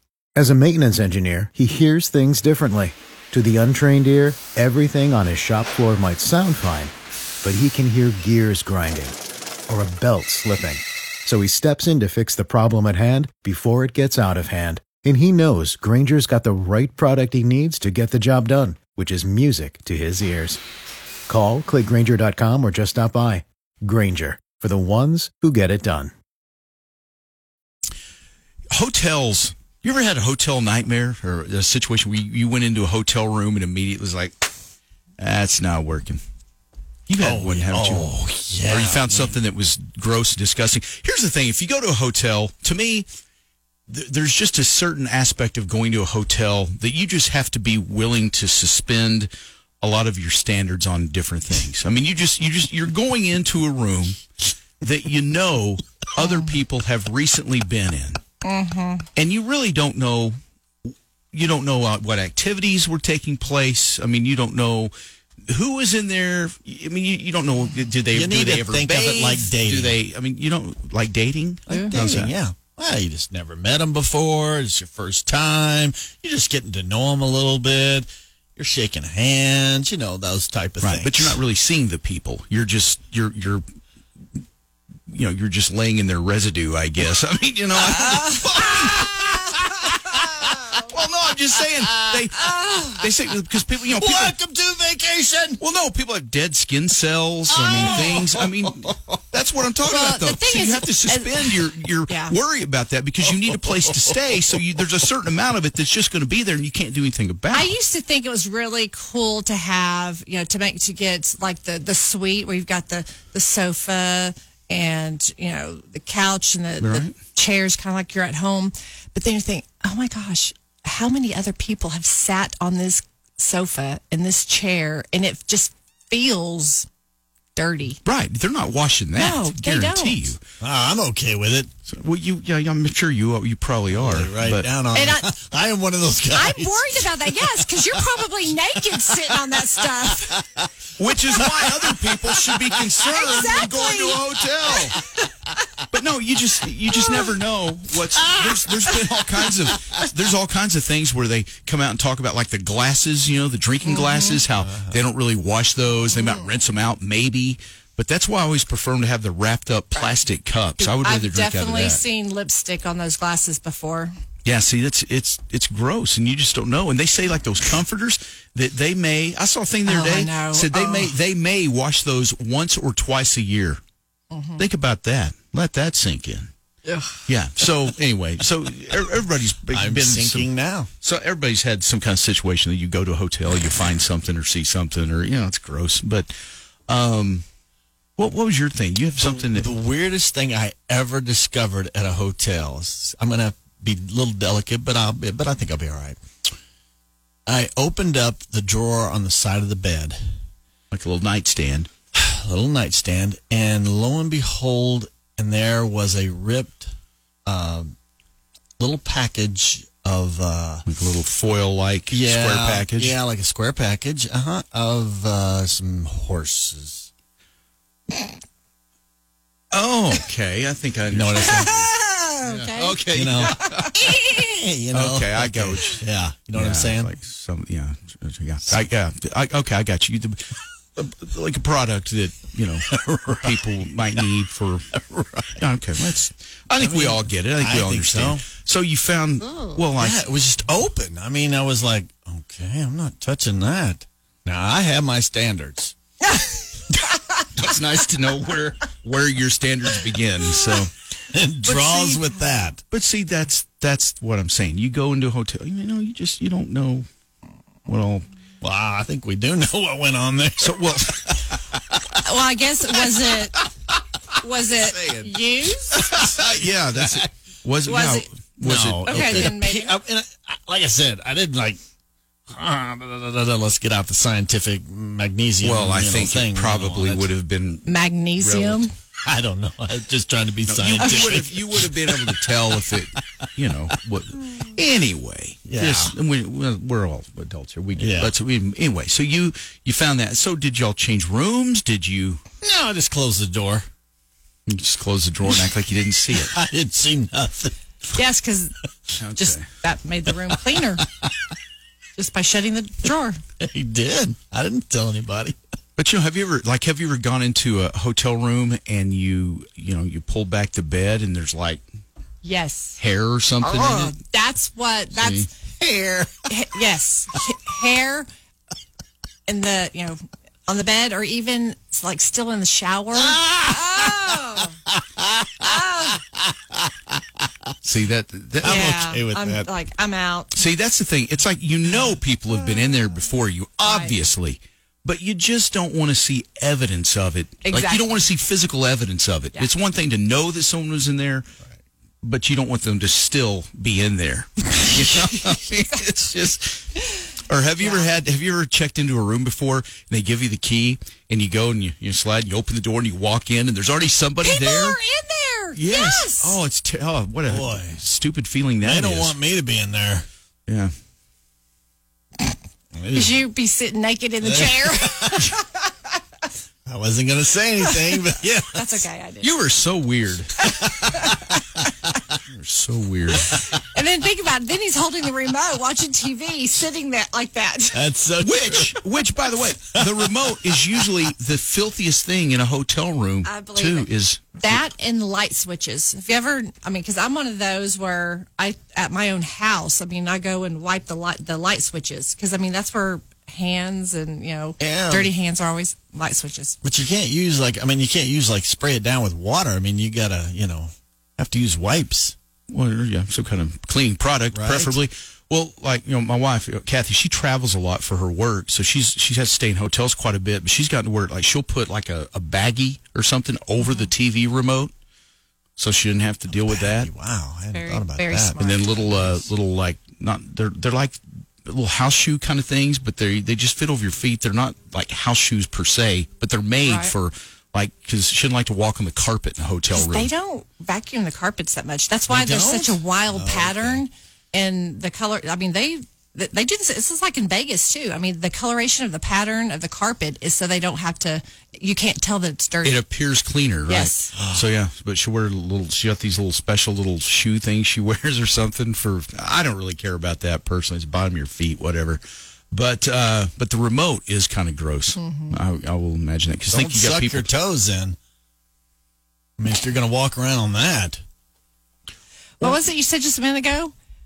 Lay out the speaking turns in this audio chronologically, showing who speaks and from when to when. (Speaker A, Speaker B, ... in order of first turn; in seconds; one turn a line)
Speaker A: 0.3-9.2
Speaker A: 9.7-20.6
Speaker A: 21.3-26.1
Speaker B: 28.7-34.3
Speaker B: 35.2-36.2
Speaker B: 37.1-38.1
Speaker C: 37.2-39.4
Speaker B: 38.6-43.0
Speaker B: 43.9-49.3
Speaker B: 49.8-54.2
Speaker B: 54.8-58.2
Speaker D: 56.2-56.5
Speaker D: 58.4-59.1
Speaker B: 59.2-64.9
Speaker B: 65.4-72.3
Speaker C: 68.1-70.0
Speaker D: 71.7-72.0
Speaker C: 71.7-81.4
Speaker B: 80.8-83.6
Speaker B: 85.1-89.2
Speaker D: 87.8-88.4
Speaker C: 88.0-90.8
Speaker D: 89.8-90.2
Speaker B: 90.7-94.4
Speaker C: 92.0-92.8
Speaker D: 92.4-93.0
Speaker C: 93.8-95.6
Speaker B: 95.6-107.7
Speaker C: 97.5-99.2
Speaker D: 99.8-102.4
Speaker C: 103.4-104.6
Speaker D: 107.5-126.9
Speaker B: 116.8-117.1
Speaker D: 127.5-128.0
Speaker B: 128.0-130.4
Speaker D: 129.2-130.3
Speaker C: 130.6-131.7
Speaker B: 131.9-134.7
Speaker C: 133.9-138.0
Speaker D: 134.9-135.3
Speaker D: 136.3-140.5
Speaker B: 141.0-145.0
Speaker C: 141.5-142.9
Speaker D: 143.0-144.2
Speaker B: 145.9-162.0
Speaker C: 148.2-150.0
Speaker D: 153.8-154.4
Speaker C: 154.6-155.0
Speaker D: 160.8-164.1
Speaker B: 164.4-173.8
Speaker D: 169.8-171.2
Speaker D: 174.3-174.7
Speaker B: 174.6-176.5
Speaker C: 176.9-177.1
Speaker B: 177.3-186.3
Speaker C: 179.7-180.9
Speaker B: 186.9-187.4
Speaker B: 188.2-189.7
Speaker C: 189.2-196.2
Speaker C: 197.5-200.2
Speaker B: 200.9-201.9
Speaker C: 202.1-206.9
Speaker C: 207.4-207.9
Speaker C: 208.8-210.8
Speaker B: 210.8-213.2
Speaker C: 212.1-217.1
Speaker B: 219.7-224.0
Speaker C: 221.1-221.7
Speaker D: 221.4-224.4
Speaker C: 223.1-227.1
Speaker B: 224.9-234.9
Speaker C: 232.9-234.3
Speaker C: 234.9-235.6
Speaker B: 235.6-240.2
Speaker C: 236.8-238.4
Speaker C: 240.0-245.9
Speaker D: 246.2-247.4
Speaker B: 247.6-250.9
Speaker C: 251.3-252.8
Speaker D: 251.7-252.4
Speaker B: 252.9-257.1
Speaker B: 257.9-258.2
Speaker C: 258.6-261.4
Speaker B: 260.6-261.7
Speaker D: 262.1-263.6
Speaker D: 264.3-266.1
Speaker C: 264.7-265.3
Speaker B: 265.9-269.5
Speaker C: 266.1-267.2
Speaker D: 267.8-268.3
Speaker C: 268.6-271.8
Speaker D: 269.0-270.0
Speaker C: 272.5-277.3
Speaker B: 275.6-278.9
Speaker D: 277.8-278.9
Speaker C: 279.2-283.0
Speaker B: 280.7-292.4
Speaker D: 281.0-281.3
Speaker C: 285.7-286.1
Speaker C: 287.9-288.3
Speaker C: 292.6-293.9
Speaker B: 294.7-296.5
Speaker C: 296.3-297.8
Speaker D: 298.1-298.7
Speaker B: 299.2-299.6
Speaker D: 299.4-301.0
Speaker C: 301.2-301.5
Speaker D: 302.1-303.4
Speaker C: 303.6-305.6
Speaker B: 306.0-311.8
Speaker D: 312.4-313.0
Speaker B: 313.0-314.1
Speaker C: 313.6-314.1
Speaker D: 313.9-315.5
Speaker B: 315.1-315.5
Speaker C: 315.8-316.5
Speaker D: 316.4-318.3
Speaker D: 319.5-324.8
Speaker C: 323.2-325.5
Speaker D: 325.6-326.2
Speaker C: 326.1-327.1
Speaker B: 327.8-329.0
Speaker C: 328.6-329.7
Speaker D: 328.6-330.5
Speaker B: 330.5-341.5
Speaker D: 333.8-334.2
Speaker D: 337.6-338.2
Speaker B: 342.2-346.9
Speaker B: 347.4-355.0
Speaker D: 347.8-348.1
Speaker D: 354.4-356.6
Speaker B: 355.7-359.3
Speaker C: 357.5-358.0
Speaker C: 358.8-360.2
Speaker C: 362.9-363.4
Speaker D: 363.1-365.9
Speaker C: 364.4-365.6
Speaker C: 366.9-369.1
Speaker D: 367.8-369.6
Speaker B: 369.4-370.6
Speaker D: 370.6-372.1
Speaker C: 370.8-371.5
Speaker B: 372.5-373.6
Speaker D: 373.4-378.0
Speaker C: 377.9-378.9
Speaker B: 378.4-384.8
Speaker D: 383.4-396.8
Speaker C: 394.8-395.3
Speaker C: 396.8-402.3
Speaker B: 402.7-414.9
Speaker C: 404.5-405.0
Speaker D: 413.8-414.1
Speaker B: 415.8-417.1
Speaker C: 416.5-419.4
Speaker D: 417.7-419.2
Speaker B: 418.6-430.3
Speaker D: 426.8-427.1
Speaker D: 429.9-443.0
Speaker C: 432.3-434.0
Speaker B: 442.8-457.5
Speaker D: 443.9-444.3
Speaker C: 444.3-444.7
Speaker D: 455.1-455.6
Speaker C: 456.7-458.2
Speaker C: 459.6-461.2
Speaker D: 462.6-463.9